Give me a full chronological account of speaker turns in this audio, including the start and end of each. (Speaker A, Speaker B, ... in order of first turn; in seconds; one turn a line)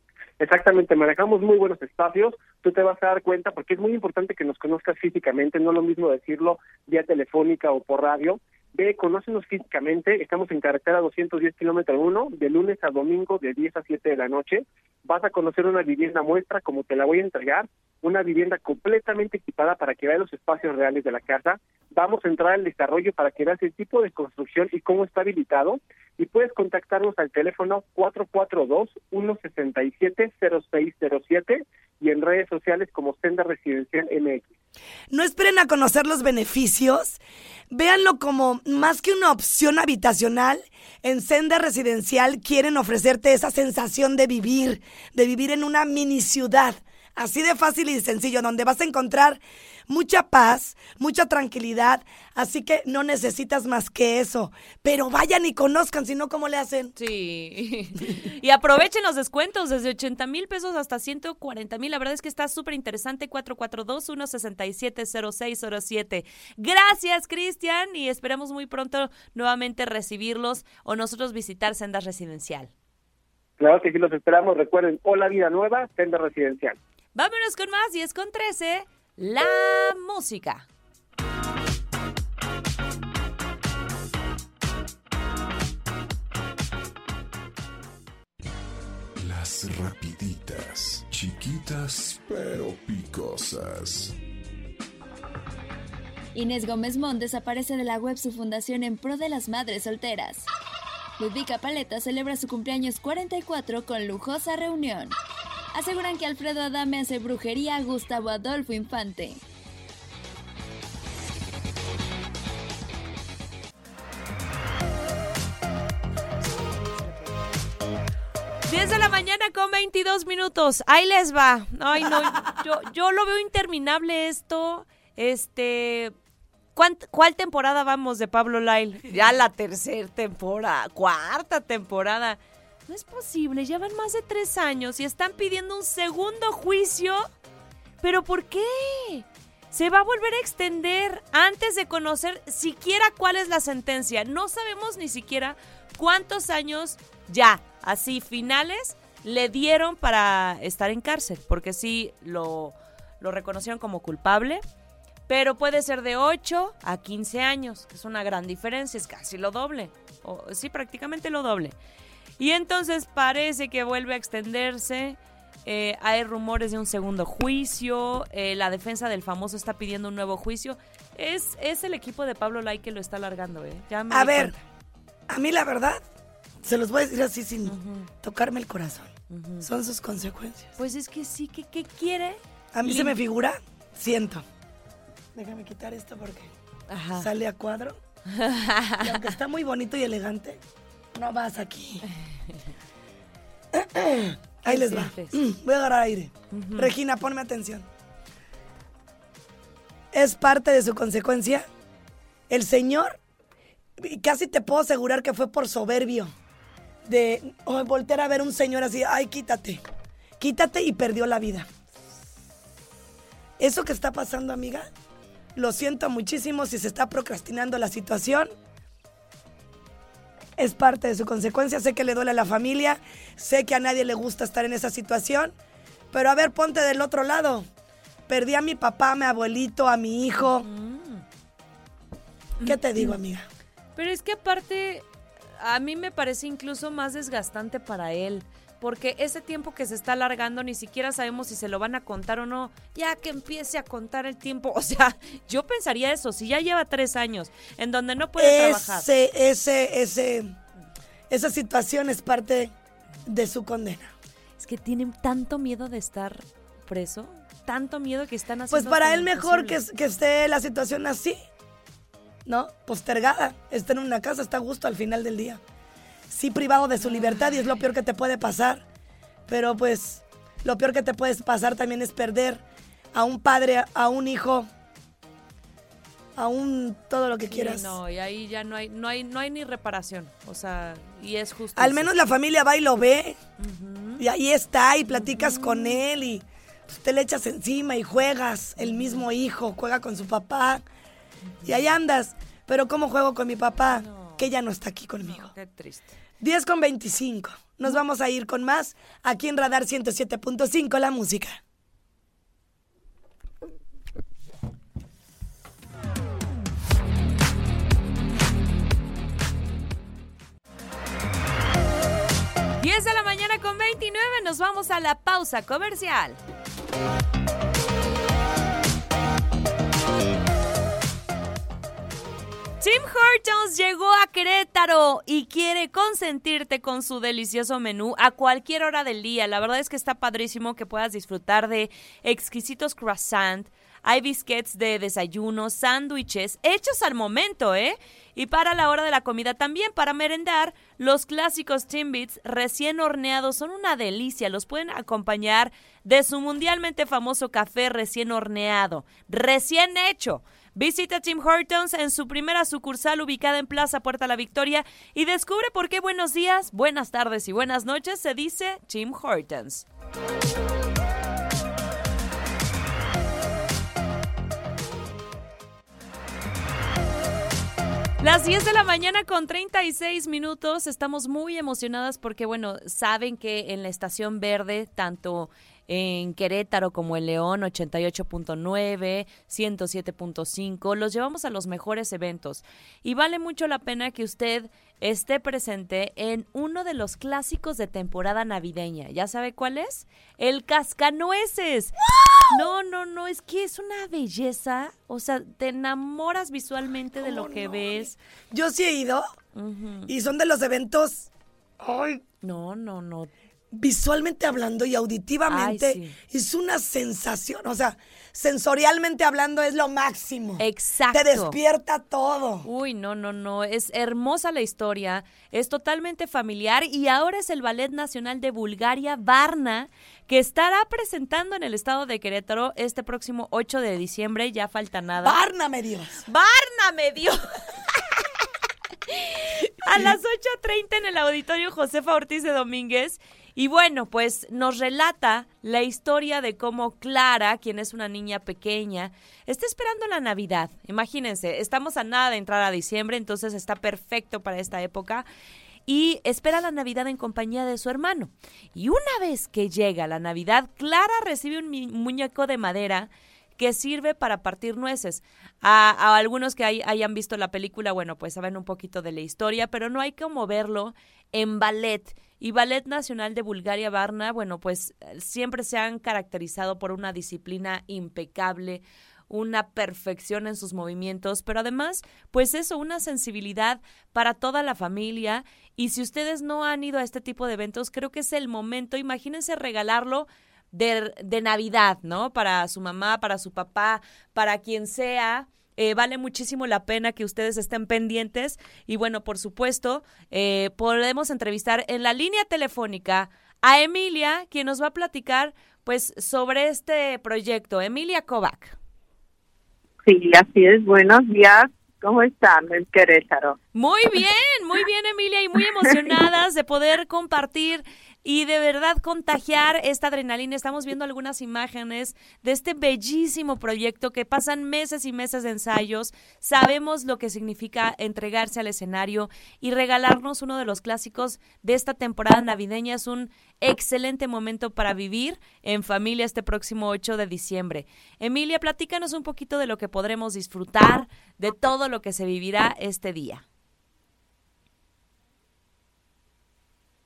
Speaker A: 0.4-34.5
Speaker B: 35.1-37.2
Speaker B: 37.7-56.9
Speaker C: 57.0-72.7
Speaker A: 73.6-76.8
Speaker C: 77.2-80.7
Speaker D: 89.2-94.2
Speaker E: 96.3-100.5
Speaker E: 101.2-105.2
Speaker E: 105.7-109.4
Speaker C: 118.7-126.2
Speaker C: 126.8-137.3
Speaker C: 138.0-154.6
Speaker C: 155.3-161.8
Speaker C: 162.4-174.6
Speaker B: 174.1-174.6
Speaker B: 175.3-176.0
Speaker B: 176.6-180.7
Speaker C: 177.7-178.1
Speaker C: 179.3-179.7
Speaker C: 180.8-183.2
Speaker B: 182.7-184.4
Speaker B: 185.3-186.5
Speaker C: 186.9-187.3
Speaker B: 187.2-188.0
Speaker C: 188.3-189.3
Speaker B: 189.0-190.6
Speaker B: 191.1-192.1
Speaker B: 193.7-197.9
Speaker C: 194.7-195.4
Speaker C: 196.5-196.9
Speaker B: 200.1-201.7
Speaker B: 202.5-203.2
Speaker B: 204.0-206.3
Speaker B: 207.1-209.8
Speaker B: 210.4-211.7
Speaker B: 213.6-214.9
Speaker B: 215.6-218.5
Speaker B: 220.6-225.5
Speaker B: 226.1-227.7
Speaker B: 228.3-230.7
Speaker C: 230.4-231.2
Speaker C: 232.6-233.2
Speaker B: 232.6-233.5
Speaker C: 234.0-235.1
Speaker C: 235.6-249.1
Speaker B: 248.4-250.6
Speaker B: 251.3-252.7
Speaker B: 253.3-254.1
Speaker C: 254.6-259.8
Speaker B: 258.7-261.4
Speaker B: 262.5-265.6
Speaker B: 266.3-268.8
Speaker C: 267.1-267.6
Speaker B: 269.5-272.6
Speaker B: 273.1-274.7
Speaker B: 276.4-278.0
Speaker C: 277.4-282.1
Speaker B: 281.8-283.4
Speaker C: 283.6-284.2
Speaker B: 284.2-290.8
Speaker C: 285.1-286.0
Speaker C: 288.8-289.2
Speaker C: 291.5-291.9
Speaker B: 291.6-295.5
Speaker C: 293.9-294.5
Speaker C: 295.2-296.2
Speaker B: 296.4-301.6
Speaker C: 312.8-316.4
Speaker C: 322.8-359.9
Speaker C: 368.2-391.9
Speaker B: 392.1-392.4
Speaker C: 392.5-398.2
Speaker B: 397.2-399.3
Speaker C: 399.5-400.1
Speaker B: 400.1-401.3
Speaker B: 401.8-402.2
Speaker C: 402.4-403.3
Speaker B: 403.7-412.7
Speaker C: 405.5-406.2
Speaker C: 410.6-411.6
Speaker C: 412.6-425.4
Speaker B: 425.2-426.2
Speaker C: 426.3-428.2
Speaker C: 429.1-445.3
Speaker C: 445.9-498.8
Speaker F: 500.1-503.6
Speaker C: 503.7-533.5